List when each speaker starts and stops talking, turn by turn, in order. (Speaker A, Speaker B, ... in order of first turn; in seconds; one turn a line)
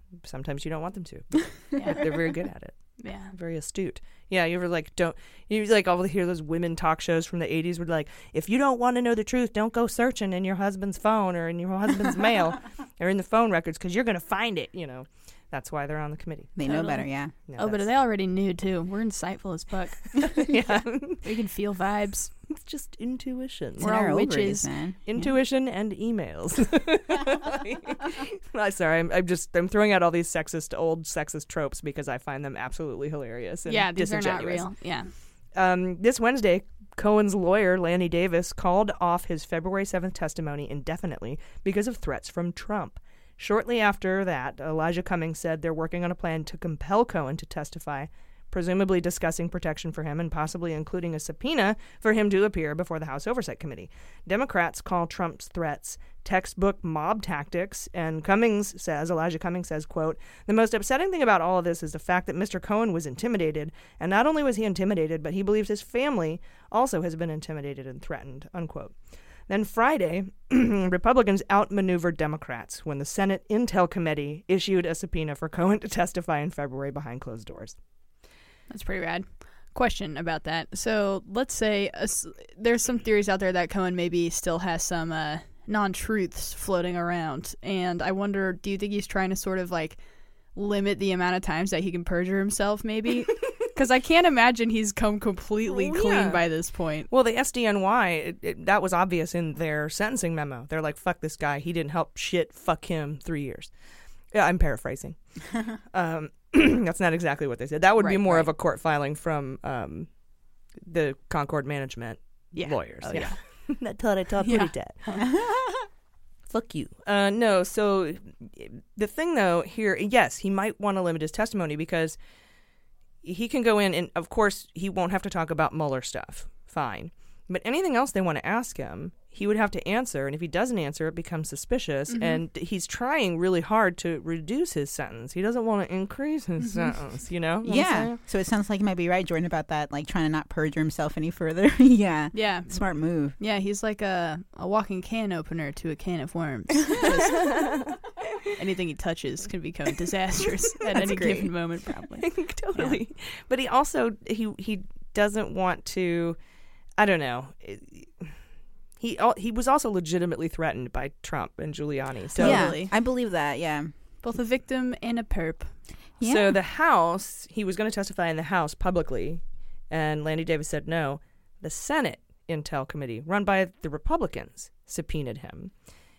Speaker A: 0.2-16.6
Speaker B: 1.8-2.0
Speaker B: 3.0-3.3
Speaker C: 16.6-17.3
Speaker B: 16.6-20.4
Speaker A: 17.5-17.9
Speaker A: 20.4-21.2
Speaker B: 21.2-22.3
Speaker A: 22.5-23.9
Speaker C: 23.8-25.3
Speaker B: 23.8-24.7
Speaker A: 25.1-34.9
Speaker B: 33.7-35.1
Speaker A: 35.5-77.8
Speaker B: 78.7-97.1
Speaker A: 95.7-103.8
Speaker A: 104.3-115.0
Speaker B: 108.0-108.5
Speaker B: 112.5-113.8
Speaker B: 114.4-115.2
Speaker C: 115.2-115.8
Speaker A: 116.5-122.2
Speaker A: 123.2-138.2
Speaker B: 132.1-132.4
Speaker B: 136.6-137.0
Speaker C: 137.6-143.4
Speaker B: 142.3-147.3
Speaker C: 147.0-147.3
Speaker A: 147.2-148.0
Speaker B: 148.6-152.4
Speaker C: 150.9-151.6
Speaker A: 152.2-156.4
Speaker A: 157.0-158.3
Speaker A: 159.0-162.7
Speaker B: 162.3-162.9
Speaker C: 162.4-163.9
Speaker B: 164.2-165.8
Speaker C: 166.2-166.6
Speaker A: 166.2-175.8